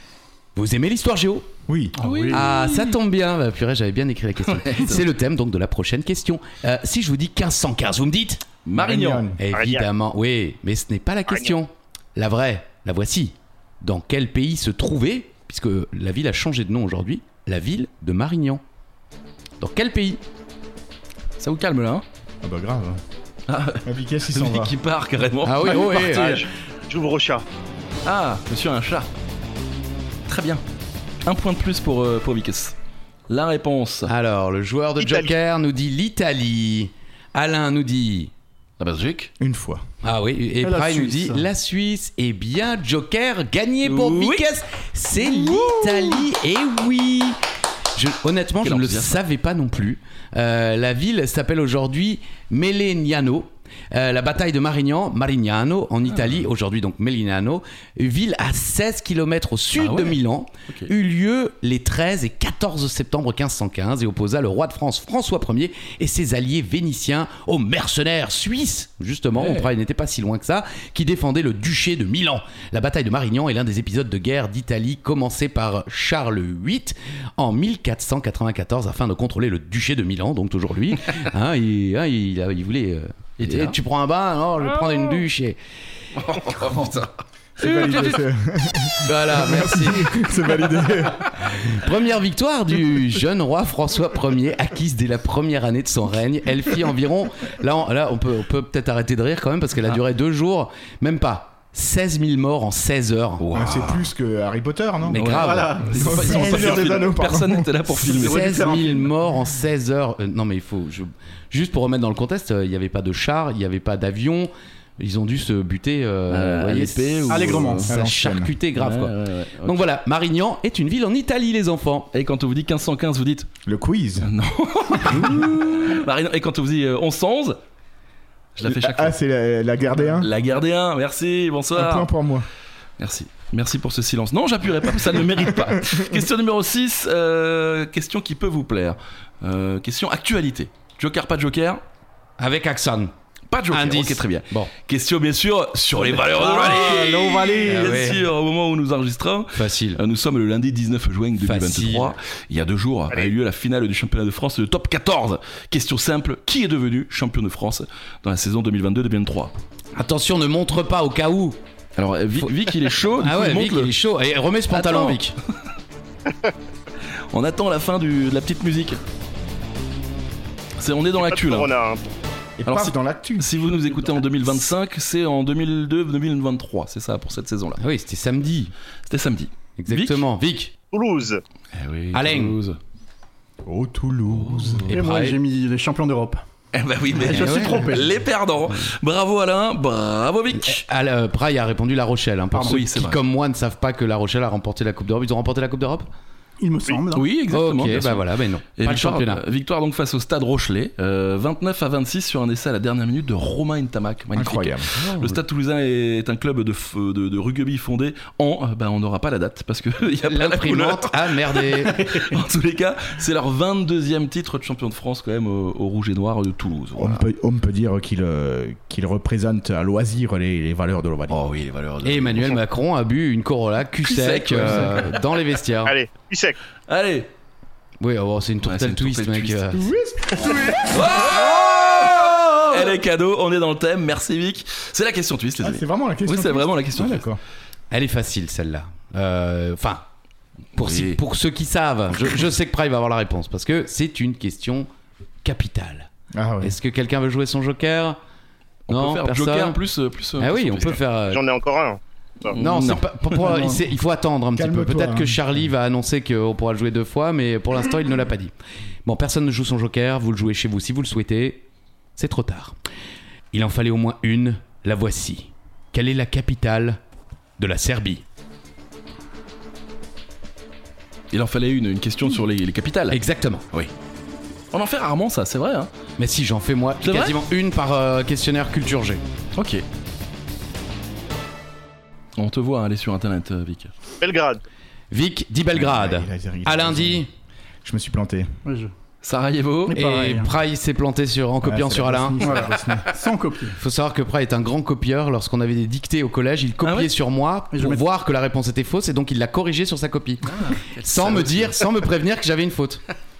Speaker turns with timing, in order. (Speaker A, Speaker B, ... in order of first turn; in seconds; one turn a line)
Speaker A: 0.5-1.5
Speaker B: 1.7-1.9
Speaker C: 2.0-2.5
Speaker D: 2.0-2.9
Speaker A: 2.3-8.4
Speaker D: 4.5-5.0
Speaker D: 8.6-9.2
Speaker B: 8.7-9.4
Speaker A: 9.4-18.6
Speaker E: 9.5-9.9
Speaker A: 19.6-20.2
Speaker D: 21.4-22.0
Speaker B: 22.4-23.0
Speaker D: 23.5-26.4
Speaker B: 23.8-24.7
Speaker A: 25.4-26.4
Speaker E: 25.9-27.4
Speaker D: 28.0-29.1
Speaker D: 30.3-30.6
Speaker D: 31.2-32.8
Speaker D: 33.3-34.1
Speaker A: 34.0-38.3
Speaker E: 35.0-35.3
Speaker D: 38.8-39.3
Speaker B: 39.4-39.8
Speaker A: 40.0-47.4
Speaker C: 40.6-41.5
Speaker D: 43.8-44.5
Speaker A: 47.9-85.6
Speaker D: 48.6-49.2
Speaker D: 56.1-56.4
Speaker D: 59.8-60.9
Speaker D: 69.3-69.7
Speaker D: 83.4-83.8
Speaker D: 86.1-88.2
Speaker B: 87.6-91.3
Speaker A: 87.8-88.1
Speaker A: 89.0-90.4
Speaker A: 91.4-103.4
Speaker D: 103.4-104.1
Speaker B: 103.5-105.2
Speaker A: 105.1-106.8
Speaker D: 105.1-108.7
Speaker C: 105.3-106.8
Speaker B: 105.9-107.7
Speaker A: 108.0-122.1
Speaker C: 108.0-109.1
Speaker D: 116.3-117.9
Speaker C: 117.3-117.9
Speaker B: 117.9-118.5
Speaker D: 118.7-119.8
Speaker D: 122.1-123.5
Speaker B: 123.7-124.3
Speaker D: 124.2-127.6
Speaker A: 125.1-125.9
Speaker D: 128.6-129.2
Speaker B: 128.6-130.3
Speaker D: 130.0-132.1
Speaker B: 131.7-132.4
Speaker D: 133.0-141.8
Speaker A: 142.4-143.1
Speaker D: 143.5-159.5
Speaker A: 143.7-144.7
Speaker A: 146.1-148.2
Speaker C: 146.5-148.0
Speaker A: 149.5-150.0
Speaker A: 151.4-152.1
Speaker A: 159.9-161.6
Speaker D: 162.0-163.9
Speaker A: 163.1-165.3
Speaker D: 164.7-165.2
Speaker D: 167.3-169.0
Speaker D: 170.8-171.7
Speaker E: 171.2-172.1
Speaker B: 172.6-173.6
Speaker D: 172.7-177.8
Speaker A: 177.8-178.7
Speaker D: 179.1-180.2
Speaker A: 179.8-180.7
Speaker E: 180.9-181.4
Speaker D: 181.7-182.8
Speaker A: 182.1-182.6
Speaker B: 183.6-184.9
Speaker D: 184.3-184.9
Speaker A: 184.9-185.4
Speaker C: 184.9-186.4
Speaker D: 186.7-190.8
Speaker C: 187.1-188.1
Speaker A: 187.2-188.0
Speaker A: 190.5-196.1
Speaker D: 192.5-193.2
Speaker C: 196.6-197.3
Speaker D: 197.1-217.2
Speaker A: 197.5-199.4
Speaker B: 204.3-204.9
Speaker A: 205.0-205.4
Speaker A: 210.2-212.3
Speaker B: 217.0-221.4
Speaker D: 221.3-222.6
Speaker A: 222.0-225.9
Speaker D: 224.0-225.1
Speaker E: 225.8-226.6
Speaker D: 226.9-227.3
Speaker A: 228.0-229.9
Speaker D: 228.6-229.7
Speaker B: 229.7-232.4
Speaker D: 230.7-237.2
Speaker B: 235.6-237.4
Speaker A: 237.9-240.0
Speaker A: 240.8-244.9
Speaker D: 240.8-241.2
Speaker A: 245.4-246.1
Speaker B: 246.3-246.8
Speaker A: 246.6-248.2
Speaker D: 248.9-251.0
Speaker A: 248.9-249.8
Speaker A: 250.4-251.4
Speaker E: 251.3-252.5
Speaker D: 252.5-253.5
Speaker A: 252.5-258.5
Speaker B: 254.6-255.4
Speaker A: 259.0-261.6
Speaker A: 262.2-262.8
Speaker A: 263.5-267.0
Speaker A: 267.6-268.2
Speaker D: 271.3-273.2
Speaker A: 273.1-273.6
Speaker D: 274.7-275.9
Speaker A: 276.2-279.2
Speaker D: 277.0-277.4
Speaker D: 279.6-279.8
Speaker D: 282.4-283.9
Speaker E: 284.2-284.6
Speaker A: 285.1-287.3
Speaker B: 285.7-287.2
Speaker B: 287.8-288.5
Speaker C: 288.6-288.9
Speaker D: 289.2-290.0
Speaker C: 289.9-290.5
Speaker A: 289.9-292.7
Speaker B: 291.6-293.1
Speaker C: 292.4-293.8
Speaker A: 293.7-303.0
Speaker D: 296.8-297.1
Speaker C: 297.7-298.0
Speaker D: 300.4-301.9